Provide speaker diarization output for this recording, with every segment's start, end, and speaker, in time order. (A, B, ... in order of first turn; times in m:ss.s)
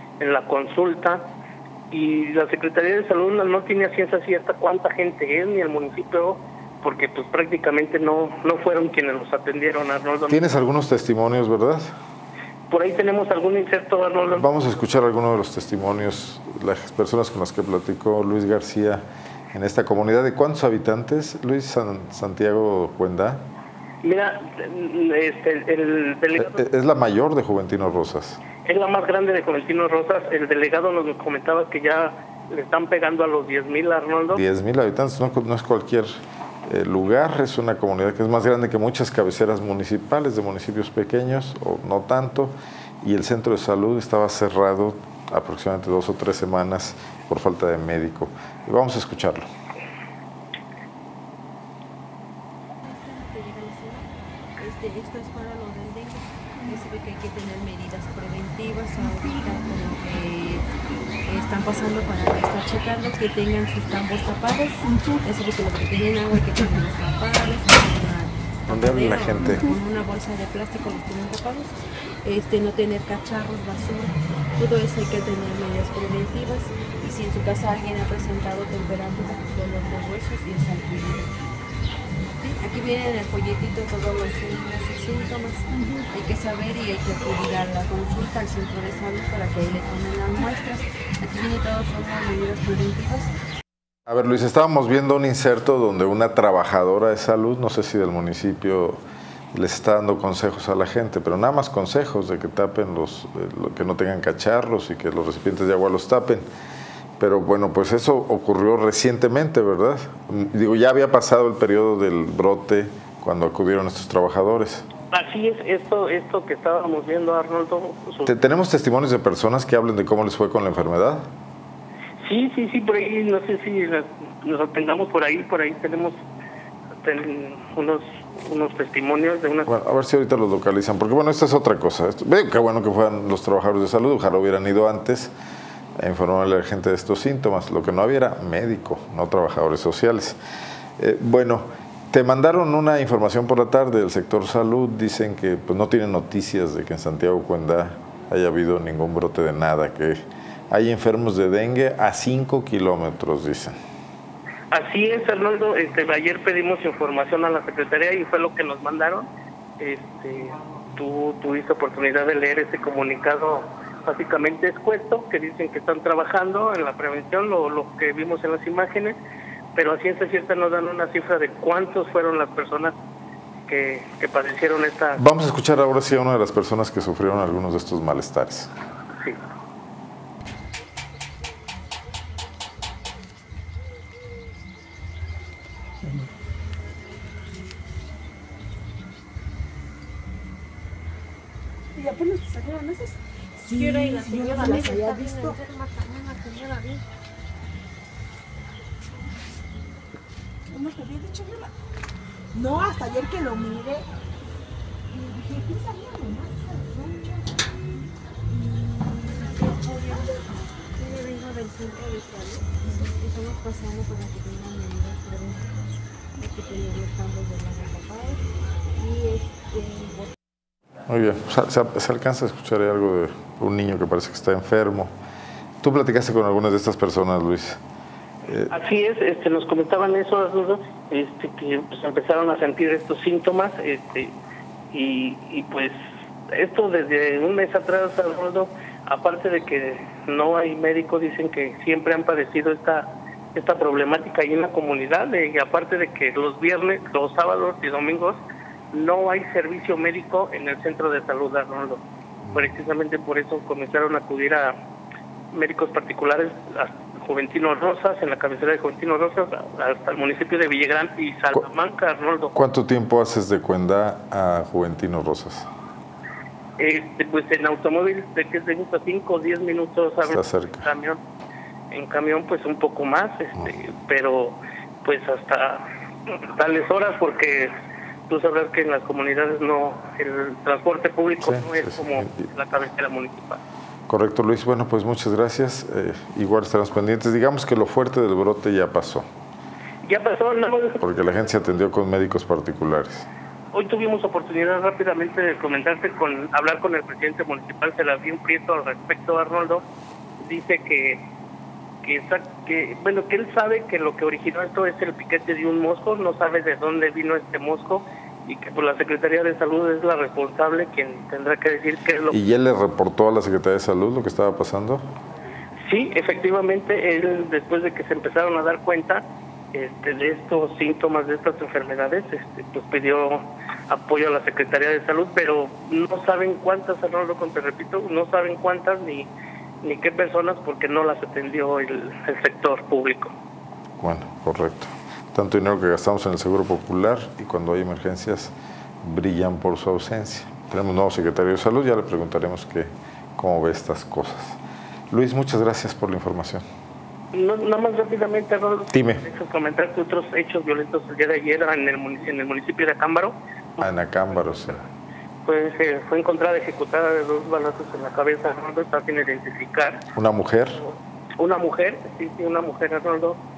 0:00.2-0:01.3 A
0:01.9-0:10.5 A
0:10.3-0:11.9 B
0:12.7-0:14.5 A
0:14.4-0:23.4 B
0:24.0-0:26.6 A
0:26.4-0:28.4 B
0:28.6-0:34.4 A
0:34.3-0:36.1 B
0:36.6-0:49.5 B
0:52.8-1:00.6 C
1:01.2-1:21.3 C
1:04.9-1:05.2 D
1:08.7-1:09.6 B
1:22.4-1:33.3 C
1:34.1-1:39.0 B
1:39.5-1:46.4 B
1:47.2-1:54.9 B
1:55.1-1:58.3 A
1:58.2-2:01.3 B
2:02.2-2:06.2 A
2:07.0-2:09.7 A
2:09.7-2:15.3 B
2:16.0-2:20.4 B
2:21.0-2:33.7 B
2:34.7-2:39.3 A
2:39.8-2:49.2 A
2:49.7-2:52.9 A
2:53.7-2:55.2 A
2:55.2-2:58.7 B
3:11.9-3:15.6 D
3:13.7-3:17.0 C
3:20.7-3:21.7 D
3:22.5-3:24.1 D
3:25.1-3:27.5 D
3:28.5-3:30.4 C
3:31.0-3:35.7 C
3:36.4-3:38.4 C
3:39.0-3:40.3 C
3:41.1-3:45.1 B
3:45.8-3:47.8 B
3:48.7-3:54.4 A
3:54.9-3:55.9 A
3:56.5-4:08.4 A
4:08.9-4:14.7 A
4:15.5-4:22.5 A
4:22.5-4:25.7 B
4:26.8-4:31.2 A
4:30.2-4:30.8 B
4:31.9-4:37.7 A
4:38.3-4:43.6 A
4:41.4-4:42.4 B
4:44.1-4:49.2 B
4:50.0-4:51.0 A
4:51.0-4:53.3 B
4:53.7-4:59.8 A
5:00.4-5:01.3 A
5:02.0-5:12.4 A
5:12.3-5:15.0 B
5:15.9-5:19.2 A
5:19.7-5:29.3 A
5:29.8-5:33.3 A
5:34.0-5:44.6 B
5:45.1-5:46.6 B
5:47.3-5:53.9 A
5:48.9-5:49.2 B
5:53.8-5:54.8 B
5:55.4-6:00.0 A
6:00.1-6:00.8 B
6:00.8-6:03.4 A